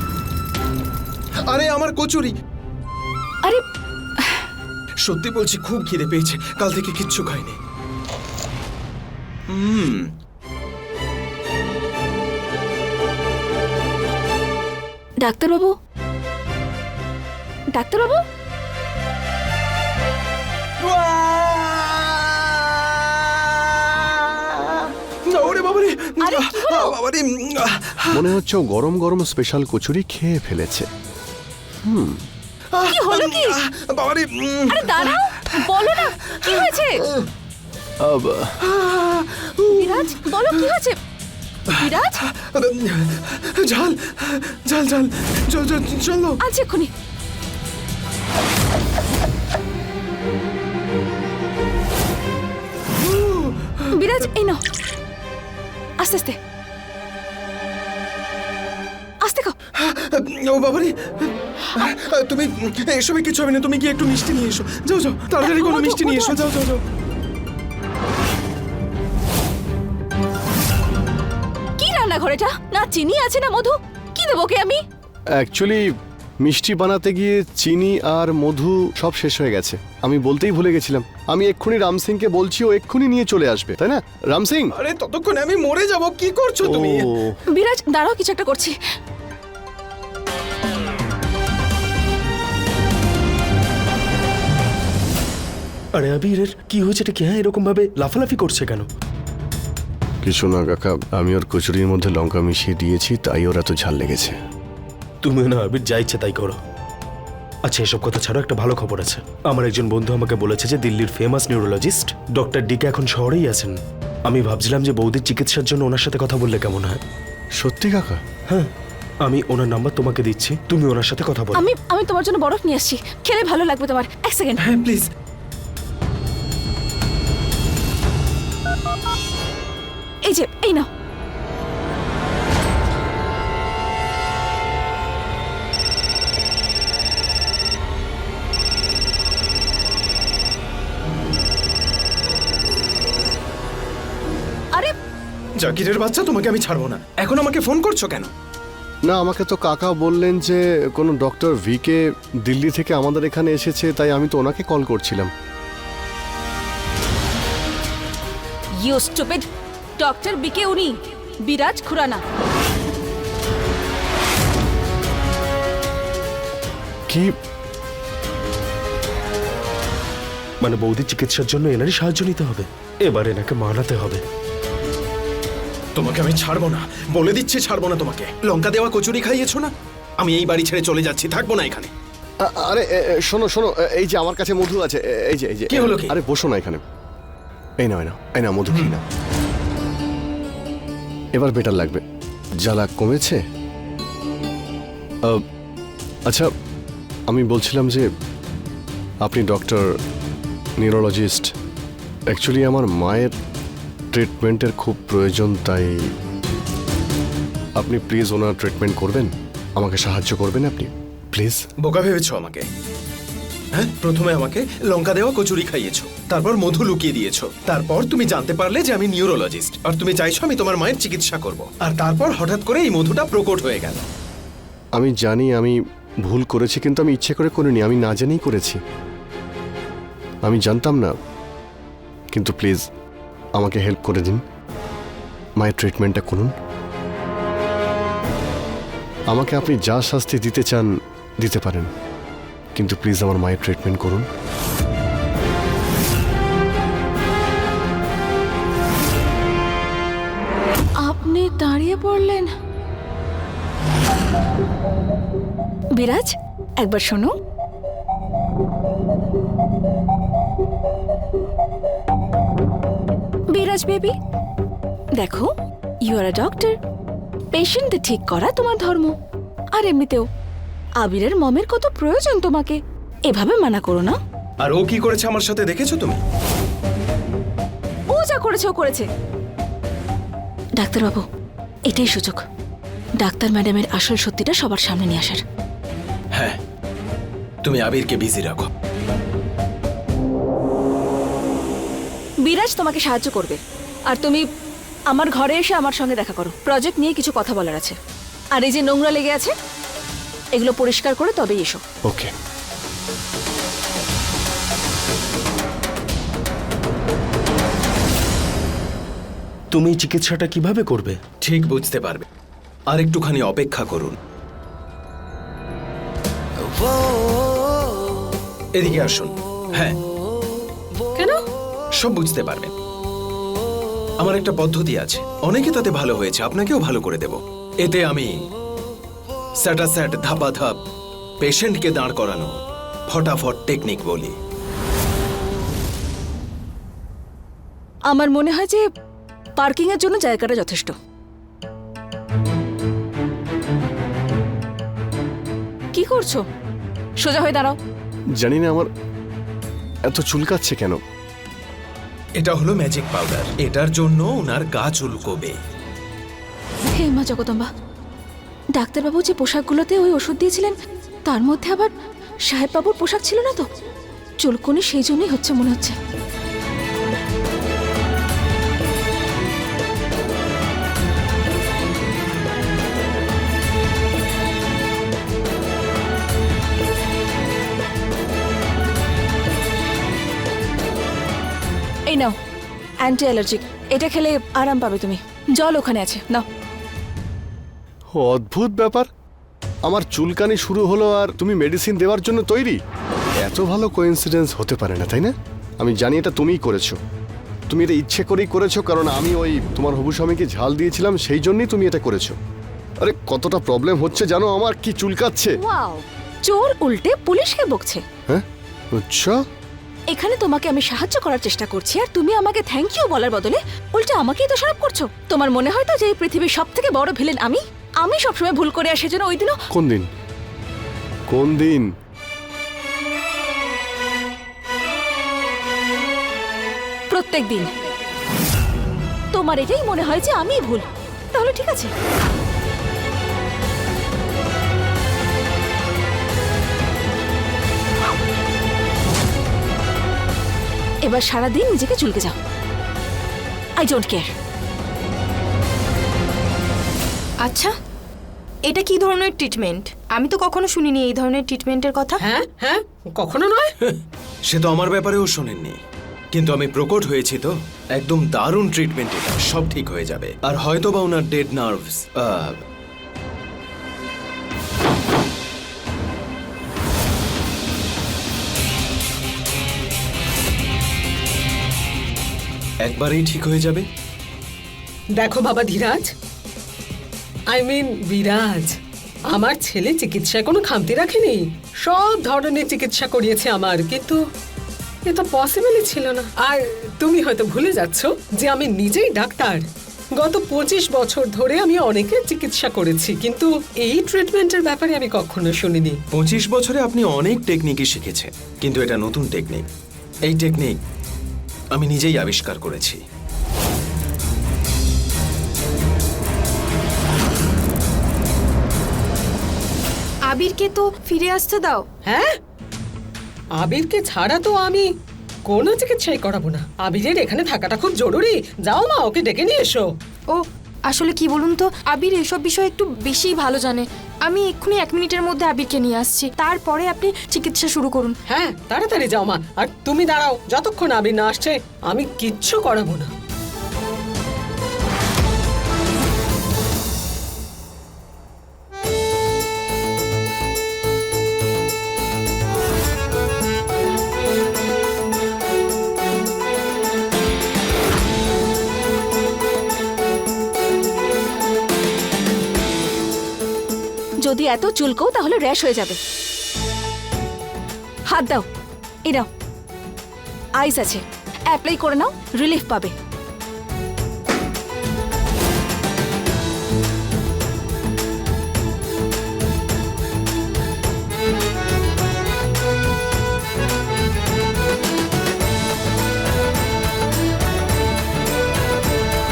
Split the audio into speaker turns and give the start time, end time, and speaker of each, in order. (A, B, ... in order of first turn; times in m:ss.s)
0:01.4-0:02.3 A
0:04.2-0:04.4 B
0:05.0-0:07.6 A
0:09.5-0:10.1 A
0:15.2-0:15.7 B
0:17.7-0:18.2 B
0:20.8-0:28.3 A
0:26.2-0:27.0 B
0:28.1-0:30.9 C
0:31.8-0:32.2 C
0:32.7-0:37.3 A
0:32.8-0:33.6 B
0:34.7-0:37.0 B
0:38.0-0:38.5 C
0:38.6-0:40.7 A
0:39.7-0:41.0 B
0:41.7-0:46.4 A
0:41.7-0:42.2 B
0:46.4-0:46.9 B
0:53.0-0:53.9 A
0:53.9-0:54.6 B
0:56.0-0:56.4 B
0:59.2-0:59.5 B
0:59.7-1:06.8 A
1:05.4-1:06.4 B
1:11.8-1:14.8 B
1:15.3-1:15.9 C
1:16.4-1:24.7 C
1:24.7-1:27.1 A
1:26.7-1:27.1 C
1:27.5-1:28.8 B
1:35.9-1:38.8 D
1:40.2-1:44.4 C
1:45.2-1:46.6 D
1:47.6-1:53.8 D
1:54.3-1:57.0 D
1:57.6-1:58.2 C
1:59.2-2:01.6 D
2:01.6-2:04.6 B
2:04.6-2:05.1 A
2:10.2-2:10.9 B
2:25.6-2:28.3 A
2:29.0-2:35.3 C
2:38.8-2:39.5 B
2:40.0-2:42.2 B
2:47.1-2:47.3 C
2:50.6-2:54.2 D
2:55.9-3:01.9 A
3:02.4-3:06.8 C
3:05.7-3:06.2 A
3:07.8-3:09.0 C
3:11.3-3:12.0 C
3:12.6-3:13.4 C
3:17.3-3:18.1 C
3:19.2-3:19.9 C
3:20.8-3:21.5 C
3:22.3-3:23.3 C
3:24.1-3:26.1 C
3:27.8-3:31.6 C
3:31.8-3:32.7 A
3:33.7-3:44.0 A
3:44.9-3:48.8 C
3:50.4-3:51.1 C
3:52.3-3:52.8 C
3:53.6-3:54.4 C
3:55.6-3:56.5 C
3:59.3-4:01.9 C
4:02.8-4:04.3 C
4:11.0-4:12.5 B
4:16.0-4:17.3 B
4:23.5-4:24.2 B
4:25.2-4:25.5 B
4:26.0-4:26.8 B
4:27.5-4:29.1 B
4:29.7-4:30.3 B
4:31.0-4:34.2 B
4:34.6-4:36.2 A
4:38.1-4:39.0 B
4:40.8-4:41.2 B
4:41.9-4:42.4 B
4:43.2-4:45.4 B
4:46.3-4:46.6 A
4:47.6-4:48.7 A
4:52.4-4:54.4 B
4:55.1-4:58.0 B
4:58.5-4:59.5 B
5:00.5-5:01.8 B
5:09.7-5:11.2 D
5:11.4-5:12.2 A
5:12.9-5:14.1 A
5:18.8-5:20.0 A
5:21.2-5:21.4 E
5:22.0-5:22.7 A
5:24.2-5:28.3 A
5:29.6-5:30.8 A
5:31.4-5:32.5 A
5:33.1-5:34.3 A
5:38.1-5:38.8 B
5:39.6-5:40.9 B
5:45.9-5:46.4 B
5:47.2-5:47.8 B
5:48.4-5:48.9 C
5:50.0-5:51.0 C
5:52.4-5:55.6 A
5:56.9-5:57.7 B
5:58.7-6:00.8 B
6:01.3-6:01.9 B
6:02.5-6:03.6 B
6:04.4-6:06.0 B
6:22.1-6:22.4 B
6:23.0-6:26.4 B
6:28.1-6:29.1 C
6:29.8-6:32.8 C
6:33.4-6:37.0 C
6:37.7-6:42.4 C
6:43.0-6:45.6 C
6:45.6-6:48.0 B
6:48.3-6:49.4 C
6:50.1-6:59.6 B
6:59.7-7:00.1 C
7:01.3-7:01.9 C
7:07.1-7:07.7 B
7:09.3-7:11.9 B
7:21.0-7:22.4 B
7:23.8-7:24.3 B
7:27.4-7:27.7 F
7:28.7-7:32.2 F
7:32.2-7:33.7 E
7:33.8-7:35.8 A
7:36.3-7:42.6 A
7:52.8-7:53.9 A
7:55.2-7:56.1 E
7:57.5-7:58.8 E
7:59.3-8:04.2 E
8:05.0-8:16.0 E
8:16.1-8:19.6 A
8:20.2-8:20.8 A
8:21.7-8:23.0 A
8:30.3-8:31.8 F
8:32.0-8:32.4 E
8:33.6-8:34.8 E
8:35.5-8:39.9 E
8:40.3-8:48.2 F
8:48.3-8:53.1 E
9:14.2-9:16.0 B
9:18.1-9:18.4 B
9:20.6-9:22.9 B